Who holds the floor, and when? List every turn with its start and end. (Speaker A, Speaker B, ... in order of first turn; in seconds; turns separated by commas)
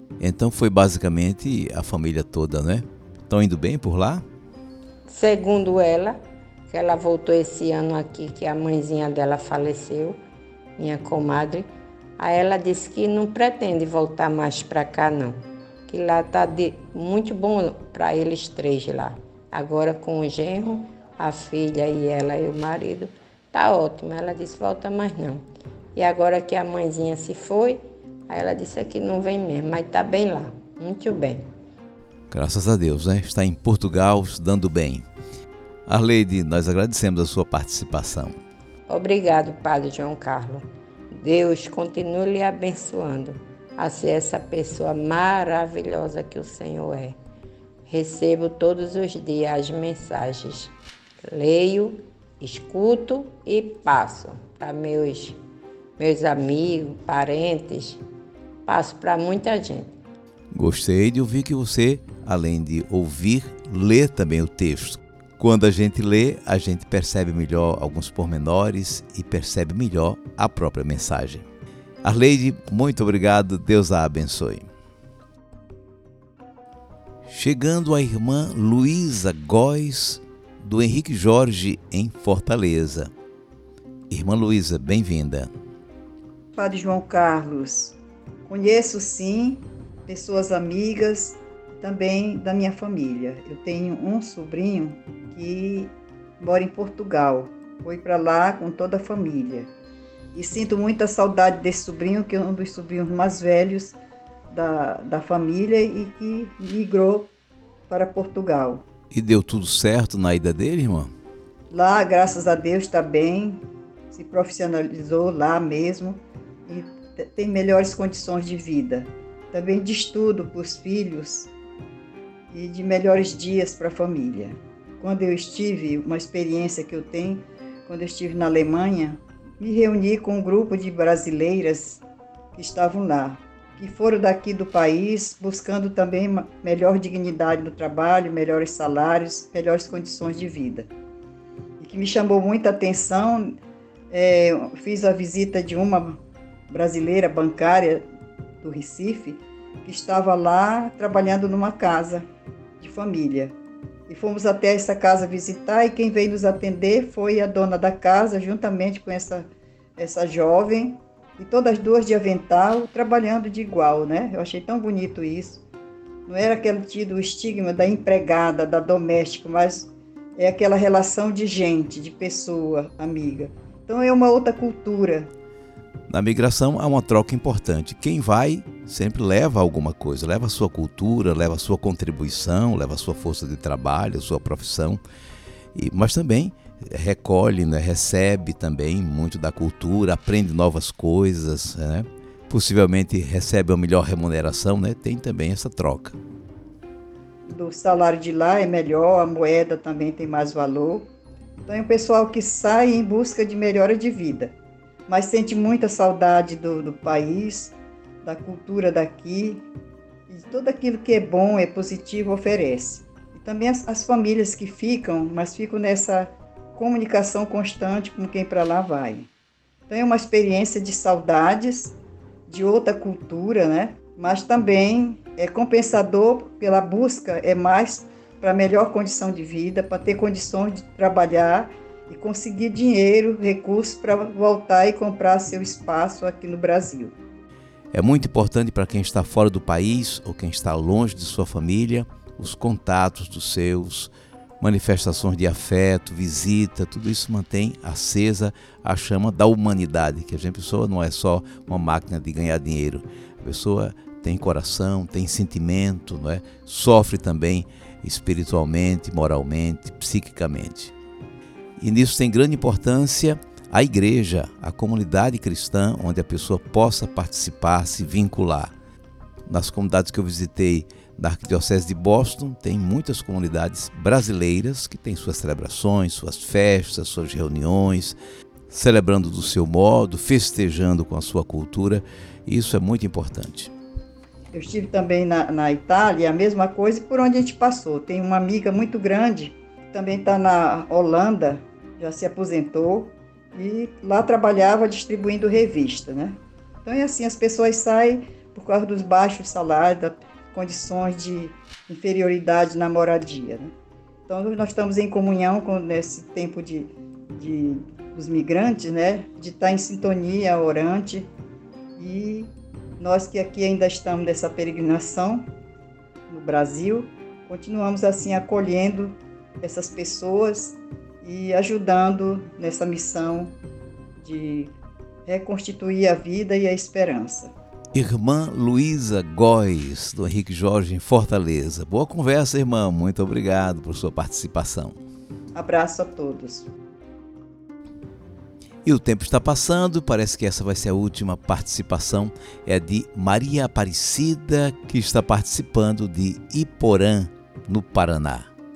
Speaker A: 0.2-4.2, Speaker B: 5.1-6.2, Speaker B: 6.7-10.2, Speaker B: 10.8-11.7, Speaker B: 12.2-25.4, Speaker B: 25.9-31.5, Speaker A: 32.3-35.1, Speaker A: 35.9-38.4, Speaker B: 38.9-47.2, Speaker B: 47.9-55.4, Speaker B: 56.0-58.0, Speaker B: 58.6-59.9, Speaker A: 60.5-71.5, Speaker A: 72.0-74.7, Speaker A: 77.3-83.1, Speaker A: 84.1-85.5, Speaker C: 86.5-99.7, Speaker C: 100.3-104.0, Speaker C: 104.5-107.3, Speaker C: 107.9-108.8, Speaker A: 109.1-111.1, Speaker C: 111.7-113.6, Speaker C: 114.1-121.5, Speaker C: 122.5-132.0, Speaker C: 132.5-140.9, Speaker C: 141.8-143.6, Speaker C: 144.1-148.1, Speaker C: 148.6-152.3, Speaker C: 152.8-153.6, Speaker C: 154.1-165.6, Speaker C: 166.3-175.3, Speaker A: 176.1-185.0, Speaker A: 185.8-196.2, Speaker C: 197.5-201.1, Speaker C: 201.7-204.5, Speaker C: 205.1-209.7, Speaker C: 210.3-219.3, Speaker C: 219.9-222.0, Speaker C: 222.5-237.2, Speaker A: 237.9-260.9, Speaker A: 261.8-268.7, Speaker A: 269.5-278.2, Speaker A: 278.7-283.7, Speaker C: 284.5-303.7, Speaker C: 304.3-311.3, Speaker C: 312.0-315.4, Speaker C: 316.3-323.6, Speaker C: 324.2-324.8, Speaker C: 325.3-327.5, Speaker A: 327.9-335.0, Speaker C: 335.5-336.7, Speaker A: 338.9-348.5